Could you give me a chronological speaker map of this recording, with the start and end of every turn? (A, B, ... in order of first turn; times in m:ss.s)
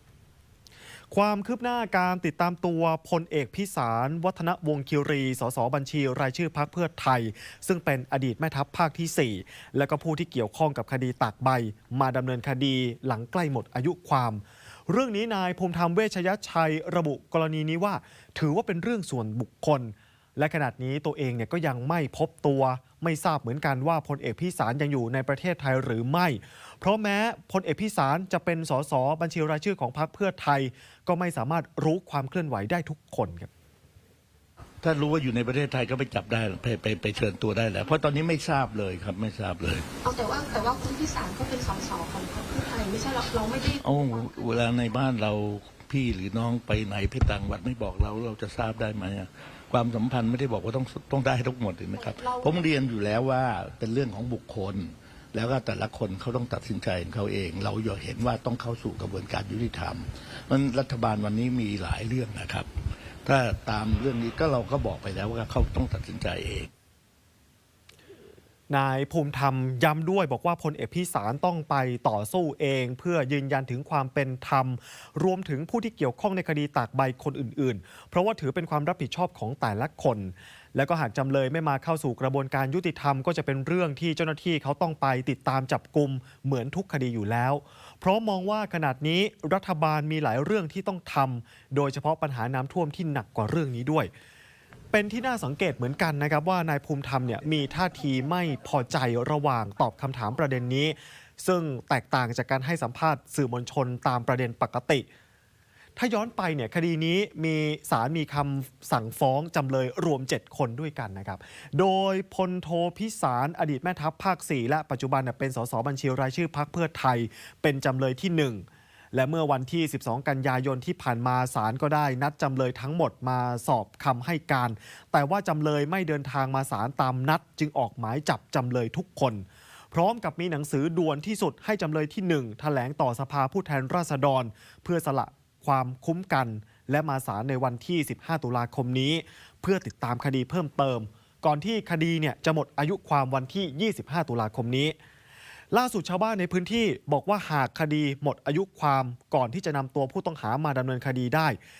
0:01.1-0:33.5 A
0:34.8-0:39.8 B
0:40.0-0:44.4 C
0:43.8-1:02.7 B
0:52.0-0:52.6 C
1:03.2-1:06.7 B
1:08.7-1:34.1 A
1:34.9-1:45.0 A
1:46.0-2:24.9 A
2:25.7-2:31.6 A